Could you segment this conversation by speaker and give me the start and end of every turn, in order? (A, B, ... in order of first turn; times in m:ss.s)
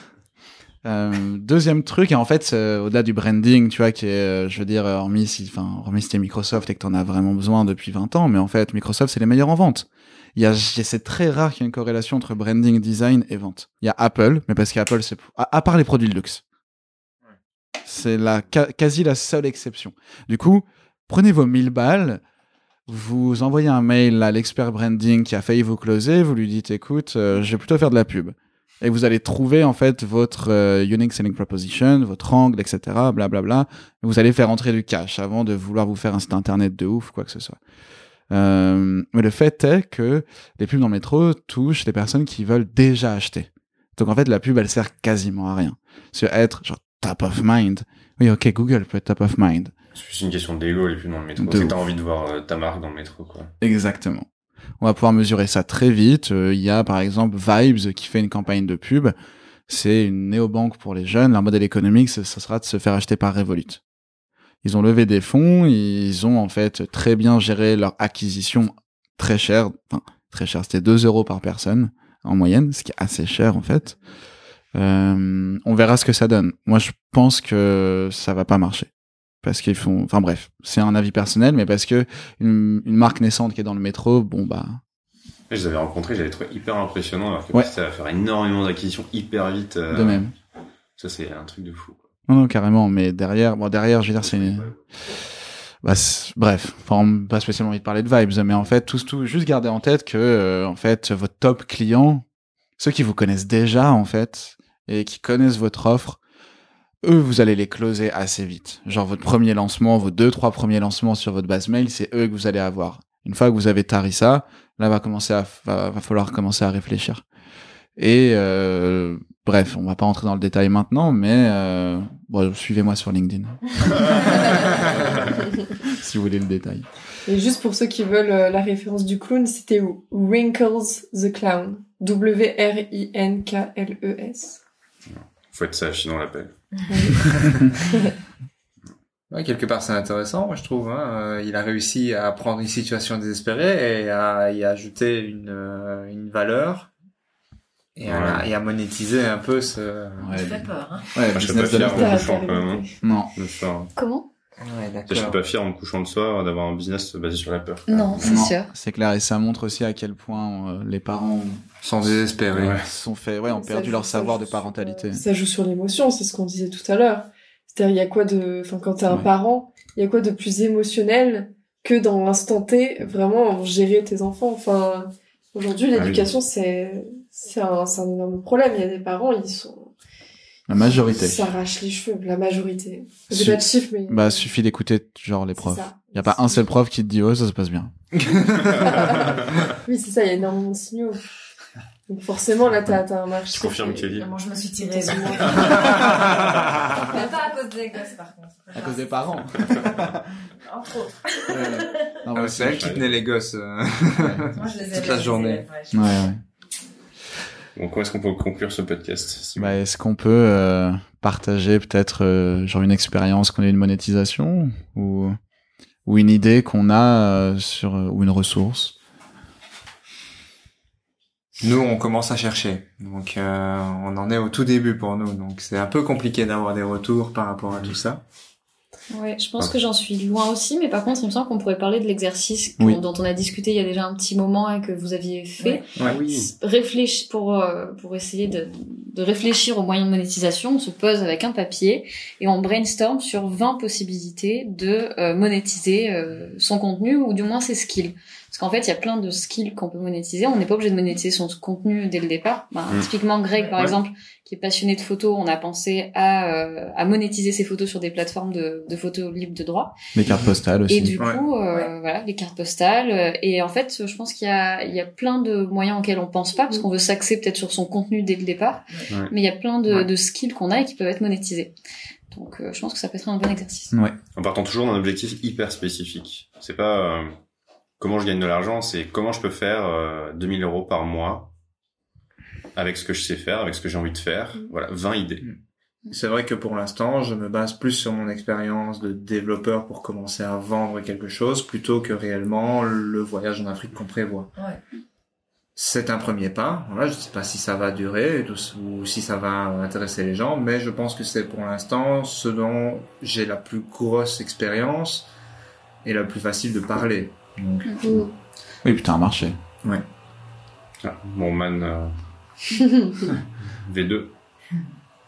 0:00.8-0:16.4 A
0:17.8-0:22.2 A
0:22.9-0:37.6 A
0:38.3-0:49.7 A
0:50.0-0:53.5 B
0:51.4-0:51.8 A
0:53.6-0:54.3 A
0:54.8-0:59.2 A
0:59.7-1:03.8 A
1:04.6-1:14.0 A
1:14.8-1:18.9 A
1:19.4-1:24.8 A
1:25.5-1:30.3 B
1:29.9-1:30.3 A
1:31.0-1:32.1 B
1:32.3-1:34.7 A
1:34.2-1:34.9 B
1:35.8-1:42.2 A
1:42.8-1:46.2 A
1:47.0-1:57.2 A
1:58.0-2:06.9 A
2:07.3-2:14.6 C
2:15.1-2:16.6 B
2:16.9-2:18.1 C
2:17.3-2:17.6 D
2:19.3-2:26.9 D
2:28.0-2:30.4 D
2:28.0-2:28.5 B
2:30.2-2:32.2 A
2:30.3-2:31.2 E
2:31.3-2:32.8 B
2:31.6-2:32.9 C
2:33.0-2:33.3 A
2:33.4-2:33.9 B
2:34.0-2:34.3 F
2:34.6-2:35.4 D
2:35.1-2:38.4 B
2:37.9-2:38.7 F
2:38.2-2:41.6 A
2:41.8-2:42.8 D
2:42.5-2:42.8 B
2:42.7-2:45.3 A
2:43.5-2:59.9 C
2:55.9-2:56.3 B
3:00.7-3:01.4 A
3:00.7-3:04.5 C
3:03.3-3:07.9 A
3:05.6-3:06.6 C
3:08.2-3:08.8 D
3:08.8-3:11.2 C
3:08.8-3:09.2 B
3:12.1-3:16.3 C
3:13.5-3:14.3 B
3:14.2-3:20.0 E
3:15.1-3:15.7 B
3:16.0-3:17.0 D
3:18.7-3:20.2 A
3:20.6-3:22.3 E
3:21.5-3:23.0 A
3:22.3-3:25.7 D
3:22.6-3:23.2 B
3:24.2-3:24.4 A
3:24.5-3:26.2 E
3:25.9-3:26.4 A
3:27.8-3:29.8 B
3:29.6-3:35.4 A
3:36.1-3:39.0 A
3:41.6-3:48.2 D
3:49.1-4:20.0 F
3:55.6-3:56.1 E
3:56.0-3:56.3 D
4:13.7-4:14.0 B
4:20.2-4:21.2 A
4:20.9-4:31.7 F
4:21.2-4:21.5 D
4:32.3-4:34.0 F
4:34.4-4:37.3 B
4:38.0-4:41.5 B
4:42.8-4:45.5 B
4:45.4-4:54.5 D
4:55.8-5:05.3 D
5:06.0-5:08.2 D
5:08.0-5:08.3 C
5:08.8-5:09.6 A
5:11.0-5:12.1 B
5:12.8-5:13.3 C
5:13.7-5:14.3 B